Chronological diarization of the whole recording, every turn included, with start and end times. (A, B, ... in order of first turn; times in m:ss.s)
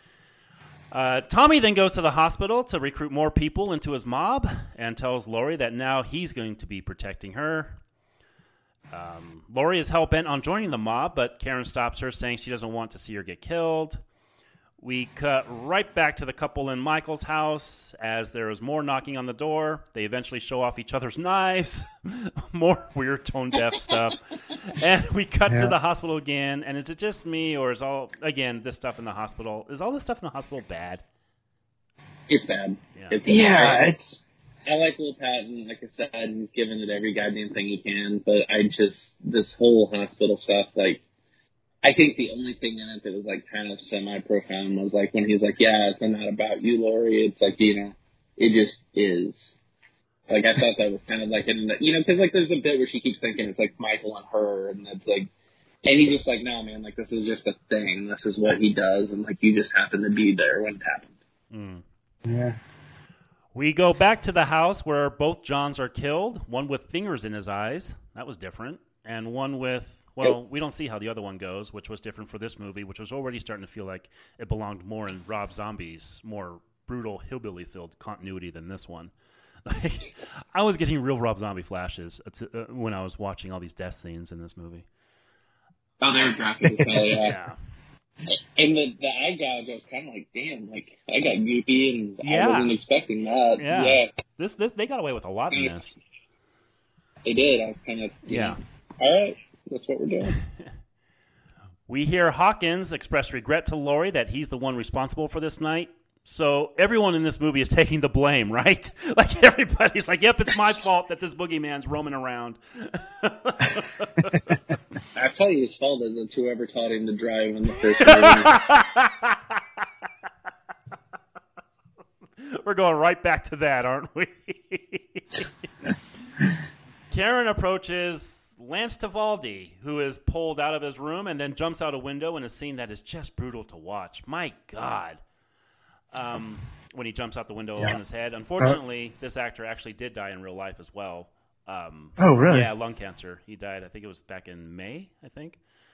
0:00.9-0:07.8 A
0:08.9-0:14.0 A
0:14.8-0:31.0 A
0:25.5-0:25.7 B
0:32.3-0:33.9 C
0:33.2-0:34.2 B
0:34.6-0:41.0 C
0:41.8-0:49.6 C
0:50.3-0:55.3 C
0:55.8-1:01.1 C
1:01.5-1:01.8 A
1:02.2-1:02.6 B
1:03.6-1:19.1 A
1:19.7-1:24.8 A
1:26.0-1:27.4 C
1:27.2-1:27.6 A
1:28.3-1:34.1 C
1:32.2-1:32.8 A
1:33.6-1:36.0 A
1:37.2-1:40.4 C
1:38.3-1:38.6 A
1:41.9-1:54.0 A
1:55.2-1:58.6 C
1:58.0-1:59.4 A
2:02.4-2:05.9 A
2:07.1-2:15.2 A
2:16.1-2:25.6 A
2:22.2-2:22.7 B